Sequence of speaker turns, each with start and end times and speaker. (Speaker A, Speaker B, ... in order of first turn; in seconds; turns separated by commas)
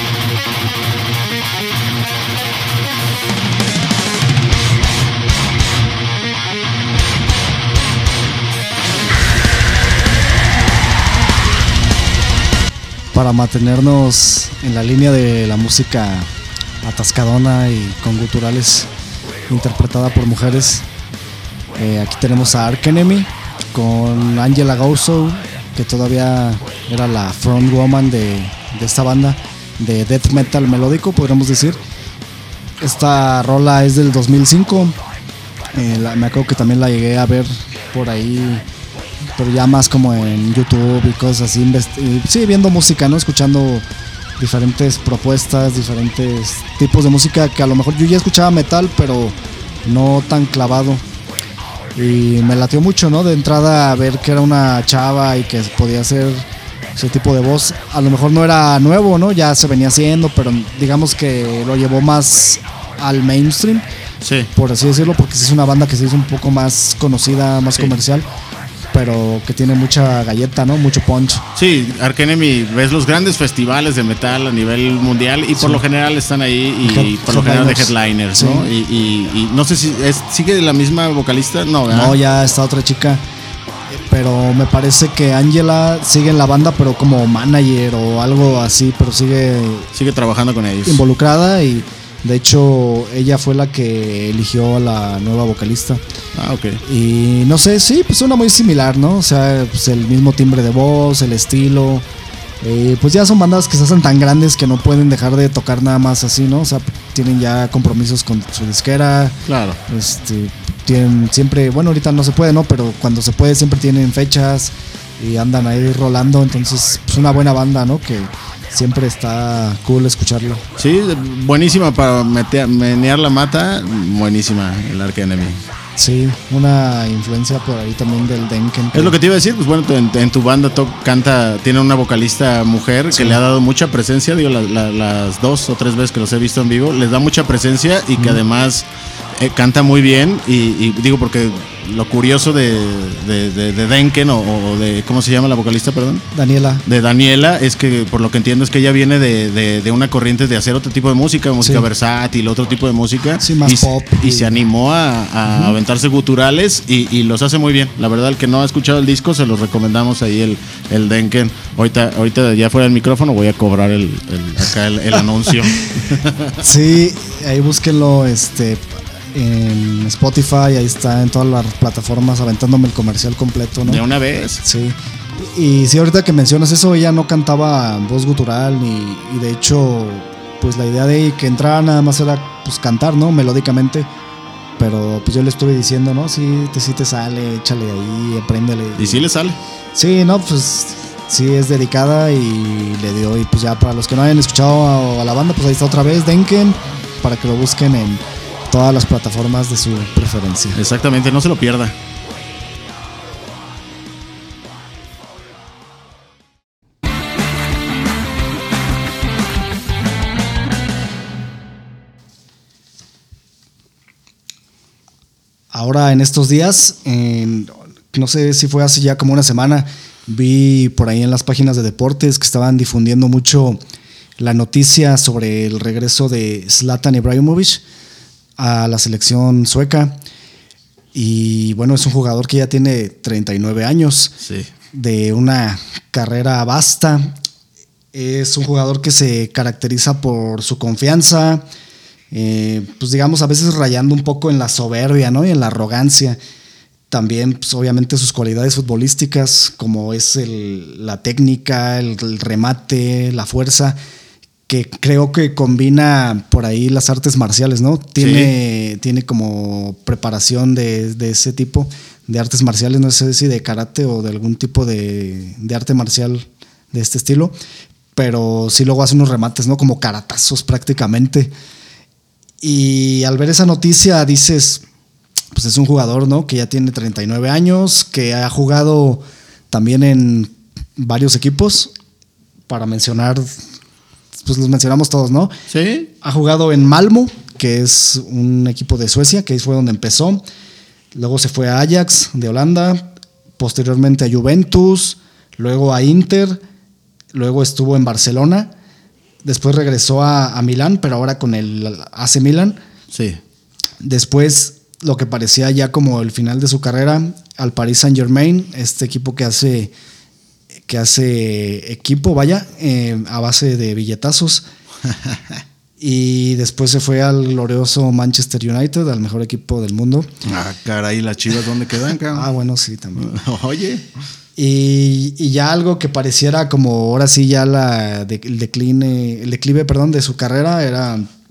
Speaker A: 13.1-16.3, Speaker A: 16.8-18.9, Speaker A: 19.5-20.9, Speaker A: 21.8-31.8, Speaker A: 32.8-35.0, Speaker A: 35.7-38.6, Speaker A: 39.4-43.8, Speaker A: 44.4-51.0, Speaker A: 51.9-56.4, Speaker A: 57.0-63.8, Speaker B: 64.2-64.5, Speaker A: 64.5-68.3, Speaker A: 68.9-71.4, Speaker B: 71.5-82.2, Speaker A: 75.5-75.8, Speaker A: 76.8-78.7, Speaker A: 81.9-83.2, Speaker A: 83.9-89.9, Speaker B: 89.9-91.0, Speaker A: 90.8-96.0, Speaker B: 96.3-96.8, Speaker A: 96.8-102.0, Speaker A: 102.6-109.3, Speaker B: 109.5-109.8, Speaker A: 109.9-120.6, Speaker B: 120.8-125.6, Speaker A: 126.0-129.2, Speaker B: 128.9-146.3, Speaker A: 133.1-133.4, Speaker A: 146.3-146.8, Speaker B: 146.8-166.7, Speaker A: 151.6-151.8, Speaker A: 153.4-154.5, Speaker A: 155.5-155.8, Speaker A: 166.6-174.0, Speaker B: 173.8-174.6, Speaker A: 174.6-184.1, Speaker A: 184.8-189.3, Speaker B: 188.9-189.6, Speaker A: 189.9-200.8, Speaker B: 200.7-201.9, Speaker A: 215.7-223.8, Speaker A: 224.4-227.8, Speaker A: 228.6-230.2, Speaker A: 231.1-234.3, Speaker B: 234.4-234.7, Speaker A: 234.9-237.4, Speaker A: 238.1-241.6, Speaker A: 242.3-246.4, Speaker A: 247.1-254.0, Speaker A: 254.7-267.5, Speaker B: 258.2-258.5, Speaker A: 268.1-271.5, Speaker A: 272.6-274.8, Speaker A: 275.5-281.9, Speaker A: 282.7-283.6, Speaker A: 284.4-285.5, Speaker B: 285.7-286.1, Speaker A: 286.2-290.4, Speaker A: 291.1-296.6, Speaker A: 297.3-298.7, Speaker A: 299.4-302.8, Speaker B: 303.1-303.4, Speaker A: 304.0-309.9, Speaker A: 310.9-314.6, Speaker B: 315.1-315.6, Speaker A: 316.0-320.3, Speaker B: 320.4-322.5, Speaker A: 322.3-323.3, Speaker B: 323.2-324.1, Speaker A: 324.6-331.3